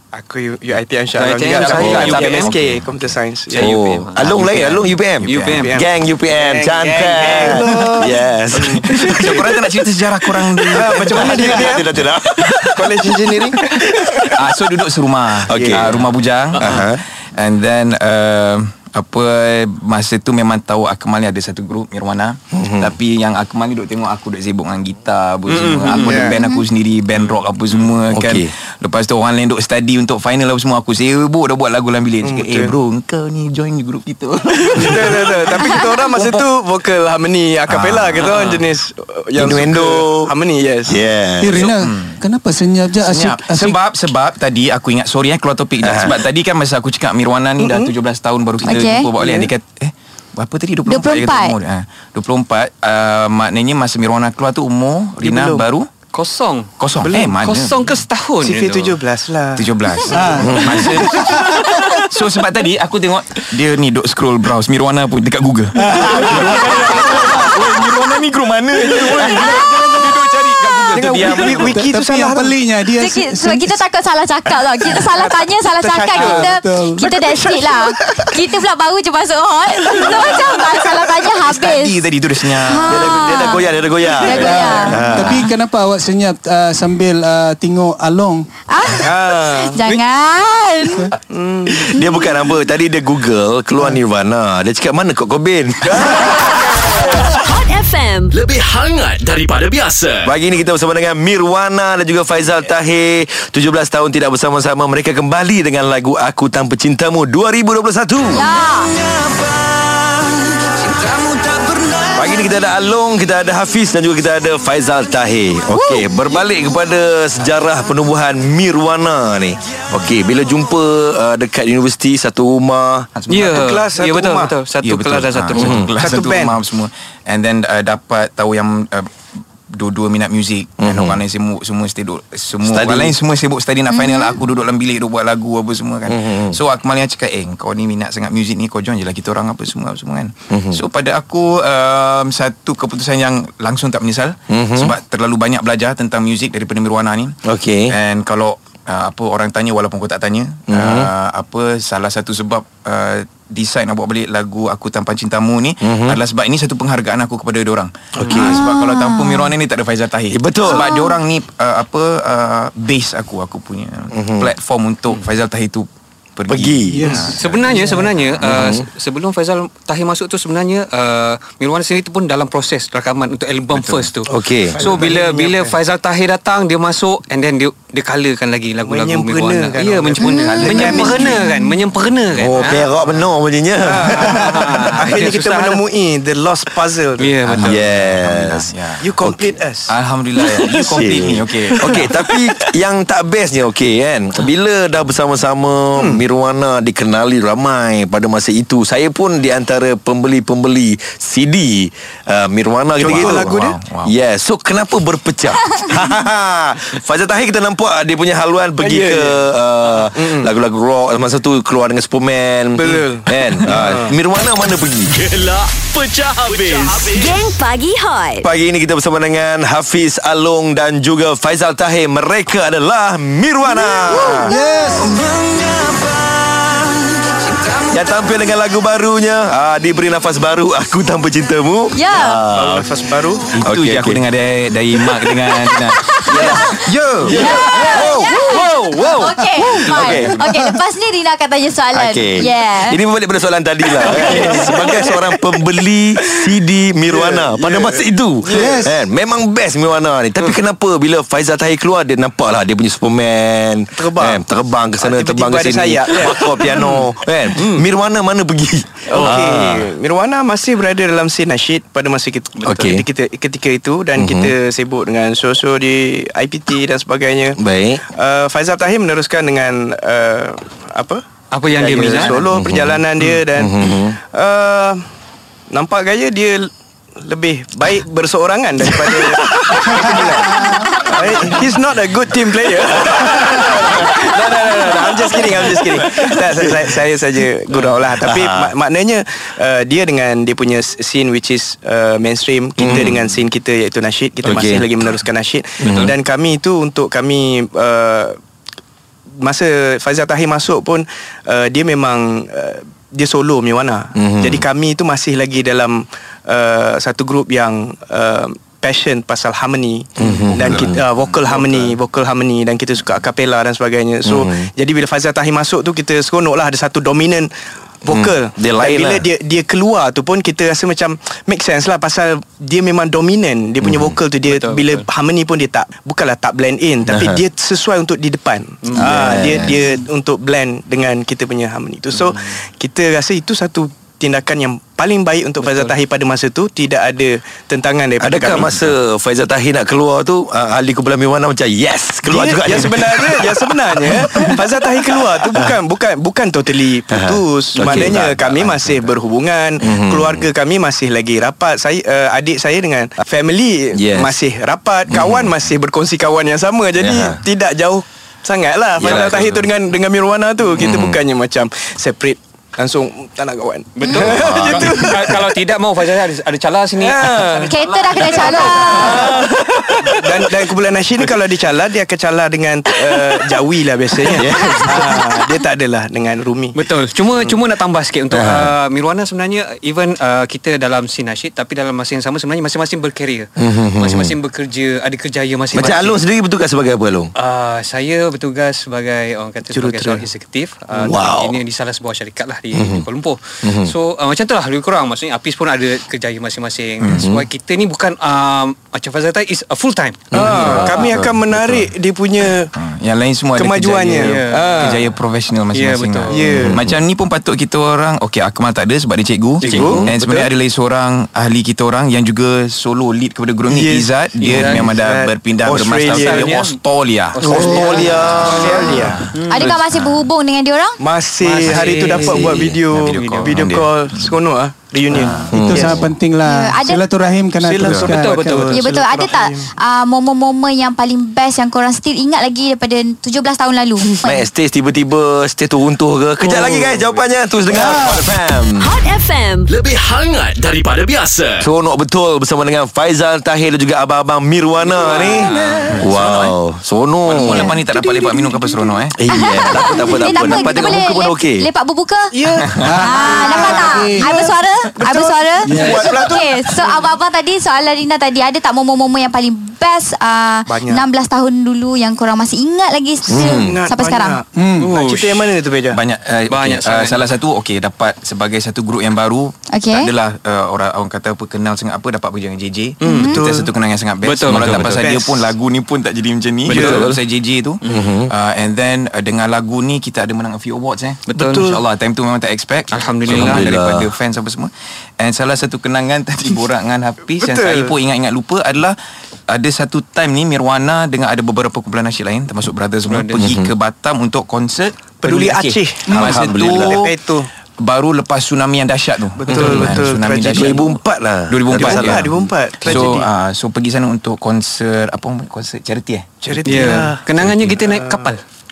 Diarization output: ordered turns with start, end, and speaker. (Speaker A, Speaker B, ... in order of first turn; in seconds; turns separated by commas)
Speaker A: 0.1-3.6, Speaker B: 1.1-2.5, Speaker C: 1.4-3.2, Speaker B: 3.5-4.5, Speaker D: 3.6-9.5, Speaker C: 3.7-5.7, Speaker B: 5.3-5.8, Speaker A: 5.5-5.9, Speaker B: 6.3-7.9, Speaker A: 7.2-9.5, Speaker C: 8.9-11.8, Speaker A: 10.7-11.9, Speaker D: 10.8-13.0, Speaker A: 12.6-14.3, Speaker C: 14.4-36.5, Speaker D: 15.5-15.9, Speaker A: 15.5-15.9, Speaker B: 16.5-16.8, Speaker D: 16.6-17.0, Speaker D: 22.5-22.9, Speaker B: 25.5-26.3, Speaker A: 26.0-26.4, Speaker E: 26.3-26.6, Speaker D: 28.1-28.5, Speaker A: 32.2-32.8, Speaker A: 34.7-41.0, Speaker C: 37.7-38.5, Speaker B: 38.2-38.6, Speaker D: 39.4-40.3, Speaker D: 40.9-41.7, Speaker F: 41.4-43.8, Speaker C: 41.5-42.2, Speaker C: 43.1-55.9, Speaker D: 45.8-46.2, Speaker A: 47.6-47.9, Speaker E: 48.6-49.1, Speaker A: 48.8-49.5, Speaker E: 50.9-51.5, Speaker A: 55.2-55.6, Speaker B: 56.1-59.0, Speaker C: 56.8-58.0, Speaker A: 58.4-60.7, Speaker C: 59.6-71.8, Speaker F: 60.1-61.7, Speaker D: 60.5-60.9, Speaker F: 65.8-66.7, Speaker A: 70.9-72.6, Speaker F: 71.7-73.8, Speaker E: 73.0-85.0, Speaker A: 75.1-76.5, Speaker F: 76.2-77.1, Speaker A: 77.0-78.3, Speaker A: 79.9-80.8, Speaker C: 81.4-83.2, Speaker D: 82.9-85.5, Speaker F: 84.4-88.5, Speaker E: 88.7-91.1, Speaker A: 89.0-90.0, Speaker A: 91.3-91.9, Speaker D: 91.8-96.8, Speaker G: 97.0-98.3, Speaker H: 98.3-100.3, Speaker D: 100.3-108.5, Speaker E: 108.3-108.9, Speaker D: 109.3-110.4, Speaker D: 112.0-123.1, Speaker E: 115.7-116.1, Speaker C: 123.2-123.7, Speaker B: 123.3-125.9, Speaker A: 123.5-124.5, Speaker C: 124.8-129.1, Speaker D: 125.6-125.9, Speaker A: 126.0-126.6, Speaker C: 129.7-147.4, Speaker D: 130.8-131.2, Speaker D: 132.7-133.1, Speaker E: 133.9-134.4, Speaker D: 136.1-136.6, Speaker D: 140.5-140.8, Speaker D: 144.5-144.9, Speaker D: 147.4-147.9, Speaker C: 147.9-168.5, Speaker D: 150.7-151.1, Speaker D: 155.8-156.2, Speaker D: 158.2-158.6, Speaker E: 158.3-159.5, Speaker D: 160.3-160.9, Speaker E: 160.7-161.2, Speaker D: 164.1-164.5, Speaker D: 166.5-167.1, Speaker F: 166.9-168.1, Speaker B: 167.3-182.9, Speaker D: 168.4-168.9, Speaker C: 173.7-174.0, Speaker D: 174.3-174.8, Speaker A: 174.7-175.8, Speaker A: 178.9-181.4, Speaker E: 180.2-181.6, Speaker C: 180.3-181.3, Speaker D: 182.3-184.8, Speaker A: 183.8-187.4, Speaker B: 184.1-185.8, Speaker B: 187.2-187.8, Speaker C: 187.4-189.1, Speaker D: 187.6-188.7, Speaker A: 189.0-189.9, Speaker D: 189.2-189.5, Speaker C: 189.9-192.1, Speaker D: 190.7-203.5, Speaker A: 196.0-196.2, Speaker A: 203.0-203.7, Speaker C: 203.0-204.1, Speaker D: 204.1-215.1, Speaker A: 208.8-209.4, Speaker A: 210.2-210.5, Speaker A: 212.8-214.2, Speaker H: 215.1-217.4, Speaker G: 217.1-218.5, Speaker D: 218.4-224.5, Speaker E: 223.8-225.2, Speaker F: 224.5-225.2, Speaker D: 225.5-226.0, Speaker D: 227.9-232.9, Speaker E: 231.9-232.4, Speaker A: 232.5-233.5, Speaker C: 233.5-236.1, Speaker D: 233.6-234.2, Speaker E: 235.5-243.0, Speaker D: 236.3-240.4, Speaker B: 237.7-238.7, Speaker D: 241.9-259.9, Speaker A: 244.0-245.4, Speaker A: 246.2-246.5, Speaker A: 247.1-248.8, Speaker F: 248.5-248.9, Speaker A: 253.9-254.4, Speaker A: 255.0-257.9, Speaker A: 259.1-275.0, Speaker D: 262.6-263.1, Speaker D: 264.2-264.5, Speaker D: 267.6-268.0, Speaker B: 271.5-272.4, Speaker D: 271.9-274.2, Speaker A: 275.7-298.4, Speaker D: 279.0-280.3, Speaker E: 280.7-281.1, Speaker D: 283.1-286.4, Speaker D: 288.2-288.7, Speaker D: 292.8-293.3, Speaker D: 294.4-294.9, Speaker D: 295.8-296.1, Speaker A: 299.4-317.5, Speaker D: 304.2-304.6, Speaker D: 310.2-311.0, Speaker C: 310.2-312.0, Speaker D: 314.2-314.7, Speaker A: 318.1-338.8, Speaker D: 318.1-319.2, Speaker D: 323.8-324.2, Speaker B: 324.4-325.1, Speaker D: 327.1-327.4, Speaker B: 328.8-329.7, Speaker D: 329.0-329.9, Speaker B: 332.1-332.5, Speaker B: 335.6-336.0, Speaker D: 338.2-344.6, Speaker A: 342.2-365.5, Speaker D: 345.2-345.8, Speaker D: 347.1-349.1, Speaker D: 349.8-350.5, Speaker D: 353.9-354.4, Speaker D: 355.1-355.5, Speaker D: 357.0-357.4, Speaker D: 359.0-359.5, Speaker C: 359.0-359.7, Speaker D: 360.8-361.2, Speaker B: 364.0-369.5, Speaker D: 364.2-365.1, Speaker A: 367.0-369.5, Speaker E: 367.6-369.3, Speaker A: 370.1-376.8, Speaker D: 374.3-375.2, Speaker B: 376.7-386.2, Speaker D: 378.3-378.7, Speaker D: 383.6-384.4, Speaker D: 385.7-387.3, Speaker B: 387.4-401.2, Speaker A: 389.7-390.2, Speaker D: 391.0-391.6, Speaker D: 392.7-393.1, Speaker D: 393.6-393.9, Speaker C: 397.0-397.3, Speaker D: 397.1-397.5, Speaker D: 400.3-400.8, Speaker A: 400.3-402.7, Speaker C: 400.4-401.9, Speaker C: 402.7-417.5, Speaker A: 403.6-405.0, Speaker B: 404.1-405.0, Speaker B: 405.7-406.6, Speaker A: 406.3-406.8, Speaker B: 409.6-410.1, Speaker A: 409.6-410.1, Speaker D: 409.7-410.4, Speaker A: 413.7-416.5, Speaker B: 414.4-414.9, Speaker B: 416.1-416.8, Speaker B: 417.4-419.8, Speaker A: 417.4-419.3, Speaker D: 417.4-419.1, Speaker C: 418.3-420.3, Speaker E: 419.5-421.0, Speaker A: 421.0-426.0, Speaker B: 421.4-422.6, Speaker D: 422.1-422.8, Speaker C: 422.9-424.4, Speaker B: 423.1-423.6, Speaker C: 425.1-425.5, Speaker D: 425.5-426.1, Speaker F: 425.5-428.6, Speaker E: 426.4-427.1, Speaker A: 427.6-429.7, Speaker C: 427.8-428.1, Speaker B: 428.1-428.9, Speaker E: 428.7-434.5, Speaker D: 434.2-438.9, Speaker F: 437.7-438.2, Speaker G: 438.8-439.7, Speaker H: 439.7-441.7, Speaker D: 441.6-447.8, Speaker A: 444.9-445.9, Speaker B: 445.0-445.8, Speaker C: 445.5-446.5, Speaker C: 447.3-449.2, Speaker A: 447.9-448.3, Speaker D: 449.2-451.7, Speaker E: 449.3-452.4, Speaker A: 452.3-457.1, Speaker F: 452.8-454.4, Speaker E: 453.0-464.4, Speaker F: 455.6-456.0, Speaker A: 460.7-461.1, Speaker D: 463.3-463.8, Speaker A: 463.3-466.0, Speaker F: 464.6-464.9, Speaker B: 464.8-465.6, Speaker C: 465.9-489.0, Speaker B: 466.5-467.2, Speaker E: 469.7-470.1, Speaker B: 473.0-473.3, Speaker E: 473.0-473.4, Speaker A: 473.1-473.7, Speaker B: 474.2-475.2, Speaker D: 474.5-474.8, Speaker A: 474.8-475.3, Speaker B: 476.7-477.1, Speaker A: 476.7-477.1, Speaker D: 476.7-477.1, Speaker D: 477.9-478.3, Speaker B: 481.3-481.8, Speaker A: 481.4-481.8, Speaker B: 482.9-483.7, Speaker D: 483.3-484.1, Speaker A: 487.4-487.9, Speaker C: 489.5-497.1, Speaker B: 493.1-493.4, Speaker D: 493.4-493.7, Speaker A: 495.2-497.5, Speaker D: 496.1-497.0, Speaker C: 497.8-500.9, Speaker A: 499.4-500.9, Speaker D: 499.5-503.1, Speaker C: 501.5-502.3, Speaker A: 501.7-503.3, Speaker C: 502.8-507.8, Speaker A: 506.4-507.2, Speaker B: 506.7-508.4, Speaker A: 507.8-508.3